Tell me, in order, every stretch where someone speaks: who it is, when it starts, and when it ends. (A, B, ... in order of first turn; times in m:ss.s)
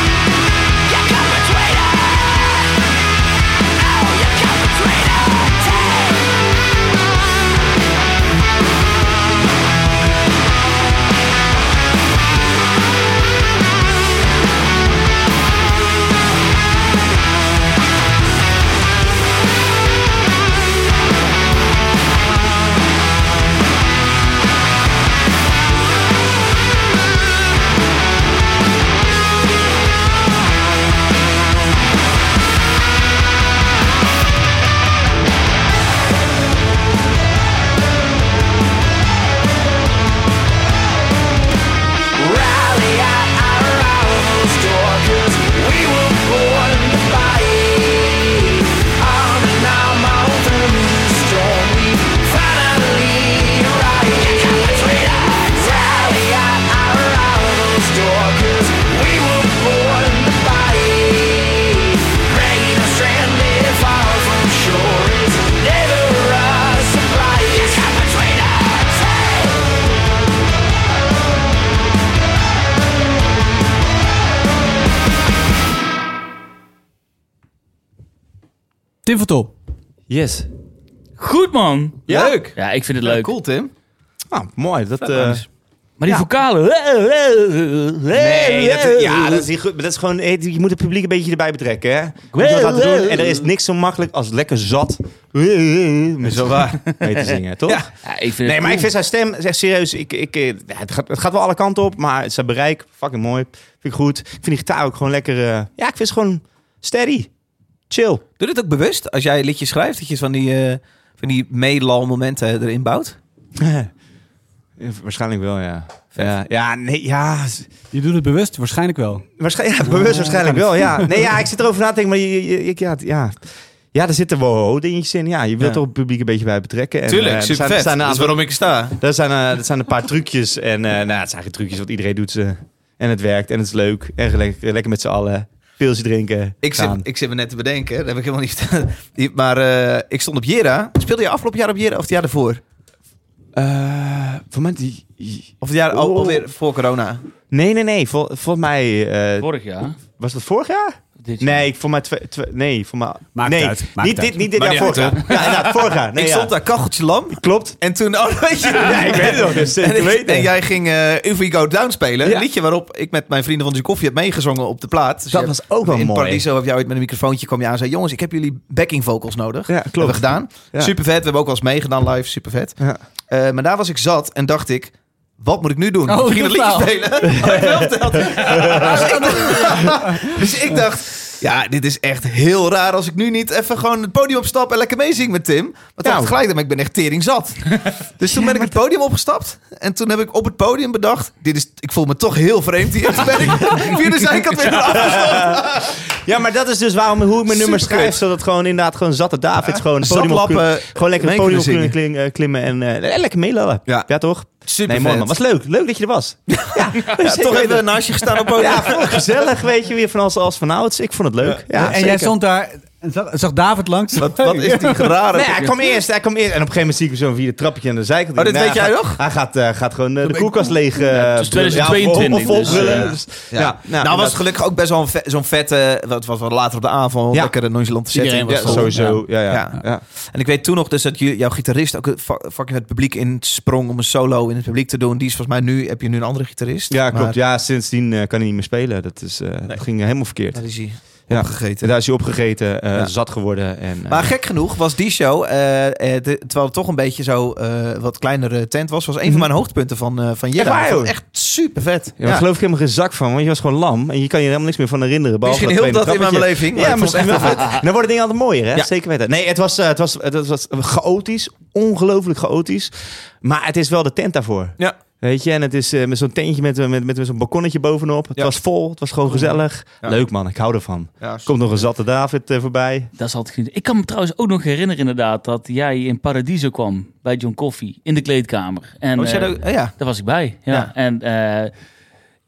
0:00.8-0:02.7 A
0:03.7-0:06.4 A
0:42.2-1:09.6 A
1:19.0-1:19.5 B
1:20.1-1:20.5 C
1:21.2-1:23.3 D
1:22.1-1:23.7 E
1:22.1-1:22.4 C
1:24.3-1:25.4 C
1:25.0-1:25.4 E
1:26.0-1:29.5 D
1:28.2-1:37.9 C
1:32.3-1:33.4 D
1:36.2-1:37.0 E
1:38.0-1:38.9 D
1:38.4-1:47.3 C
1:47.9-1:48.2 C
1:48.4-1:53.2 E
1:53.6-1:53.9 C
1:54.8-1:57.7 C
1:57.9-1:59.2 B
1:59.4-2:17.0 C
1:59.8-2:01.2 B
2:07.1-2:09.0 E
2:16.6-2:22.6 E
2:23.5-2:26.5 C
2:25.6-2:27.2 E
2:27.5-2:29.5 C
2:29.4-2:30.0 D
2:30.2-2:36.5 C
2:31.2-2:31.6 D
2:33.3-2:34.6 B
2:34.6-3:16.0 E
2:37.3-2:37.8 C
2:38.6-2:40.5 C
2:42.2-2:42.5 C
2:45.3-2:46.4 C
2:49.7-2:50.9 C
2:56.0-2:57.3 B
2:57.3-2:59.7 C
3:06.0-3:06.3 C
3:14.9-3:32.3 C
3:17.5-3:18.2 E
3:19.7-3:21.9 E
3:24.6-3:25.3 E
3:26.5-3:29.3 E
3:31.7-3:35.1 B
3:34.2-3:35.7 E
3:35.3-3:44.4 C
3:38.4-3:39.2 E
3:41.1-3:43.1 D
3:42.4-3:57.4 E
3:47.3-3:47.6 C
3:48.1-3:49.2 B
3:48.4-3:50.0 C
3:56.9-4:00.6 C
4:00.5-4:01.9 E
4:01.3-4:04.3 C
4:04.1-4:12.4 E
4:10.5-4:11.1 C
4:12.2-4:33.1 C
4:15.4-4:17.8 E
4:29.3-4:30.2 E
4:31.2-4:31.6 E
4:33.2-4:41.7 D
4:39.2-4:39.9 E